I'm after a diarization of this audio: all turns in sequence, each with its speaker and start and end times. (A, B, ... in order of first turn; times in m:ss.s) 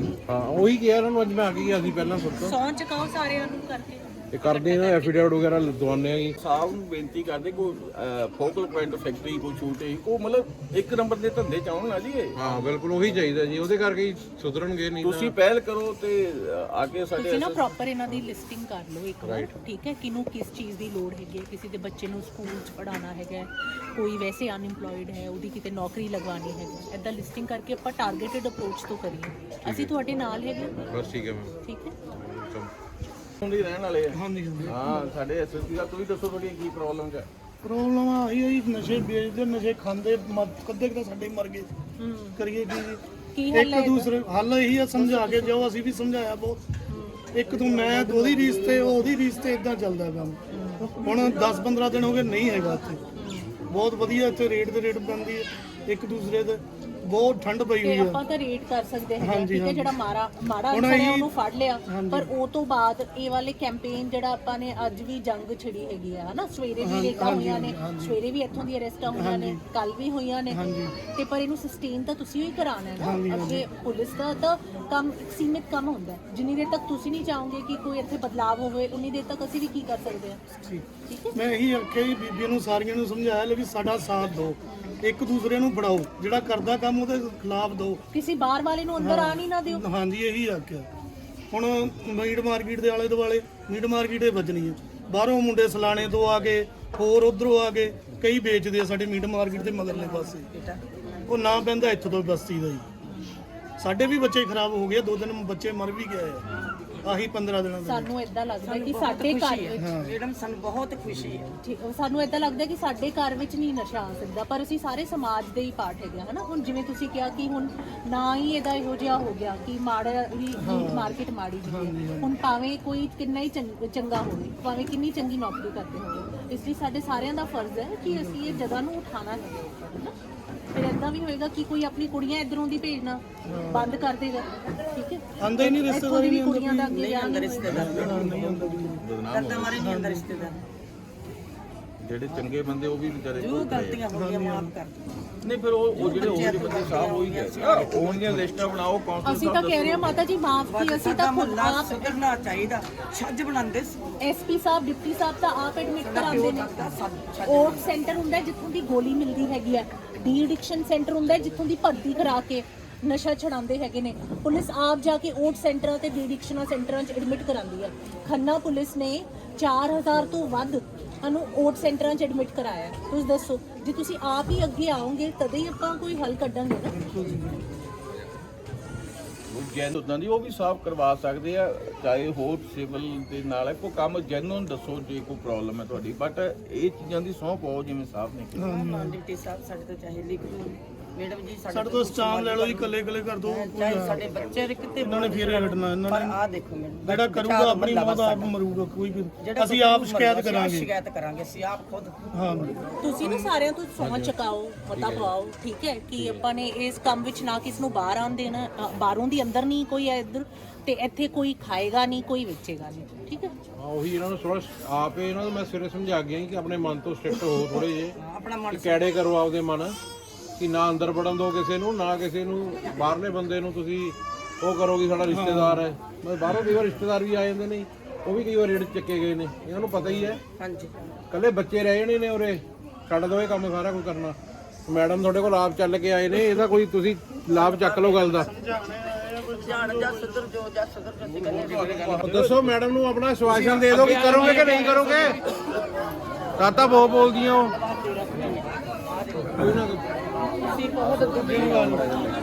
0:00.3-0:02.5 A
0:02.3-0:05.3 B
0:04.3-0:06.4 A
0:06.4-0:12.4 C
0:12.4-0:15.4 A
0:15.0-0:17.6 C
0:17.2-0:30.8 B
0:19.2-0:19.5 A
0:29.6-0:29.9 A
0:30.9-0:31.5 A
0:31.6-0:32.0 B
0:32.1-0:32.7 A
0:33.4-0:37.3 C
0:34.1-0:34.8 D
0:37.6-0:41.7 D
0:42.0-0:42.4 B
0:42.4-0:46.6 D
0:43.4-0:44.1 B
0:46.9-0:47.2 B
0:47.3-0:53.0 D
0:50.5-0:50.9 B
0:53.2-0:53.5 B
0:53.7-0:58.2 D
0:57.8-1:20.4 B
0:59.2-0:59.9 D
1:00.7-1:01.3 D
1:01.9-1:02.3 D
1:06.8-1:08.2 D
1:09.2-1:09.6 D
1:10.5-1:11.0 D
1:13.0-1:13.7 D
1:20.6-1:28.0 D
1:21.1-1:21.4 B
1:24.7-1:25.0 B
1:28.1-1:29.8 B
1:29.0-1:30.9 D
1:31.5-1:40.5 D
1:39.6-1:40.9 E
1:41.3-1:42.9 D
1:43.8-1:46.4 D
1:47.0-1:48.1 D
1:47.8-1:49.8 B
1:48.6-1:51.5 E
1:49.8-1:50.2 D
1:51.6-2:10.2 B
2:00.6-2:02.3 D
2:08.1-2:08.6 D
2:10.7-2:17.9 B
2:13.4-2:13.9 D
2:15.4-2:17.0 D
2:16.9-2:20.6 E
2:17.7-2:19.0 D
2:17.7-2:18.2 C
2:19.0-2:19.8 C
2:19.8-2:20.2 D
2:22.0-2:24.0 C
2:23.4-2:25.0 E
2:24.1-2:24.7 D
2:25.4-2:30.2 C
2:25.9-2:28.5 E
2:29.2-2:32.2 B
2:30.7-2:34.0 E
2:34.2-2:36.7 B
2:36.0-2:37.9 E
2:37.5-2:57.0 B
2:56.9-2:57.7 D
2:59.5-3:08.7 C
3:08.6-3:09.2 D
3:08.6-3:18.5 E
3:11.7-3:14.3 D
3:15.0-3:16.4 D
3:17.0-3:20.9 D
3:19.4-3:23.5 E
3:22.3-3:22.7 D
3:23.0-3:33.5 B
3:24.0-3:24.3 A
3:25.0-3:25.3 A
3:33.8-3:38.2 A
3:37.7-3:39.1 E
3:38.7-3:40.0 A
3:40.6-3:50.4 A
3:45.3-3:45.8 D
3:50.6-3:51.2 E
3:51.3-3:58.5 A
3:57.5-3:58.4 E
3:58.3-4:00.3 D
3:59.5-4:02.2 E
4:01.5-4:02.5 C
4:02.2-4:05.4 A
4:03.5-4:05.3 E
4:04.0-4:04.4 C
4:06.6-4:07.8 A
4:07.8-4:09.6 E
4:09.5-4:10.0 A
4:10.8-4:12.0 E
4:11.4-4:12.1 D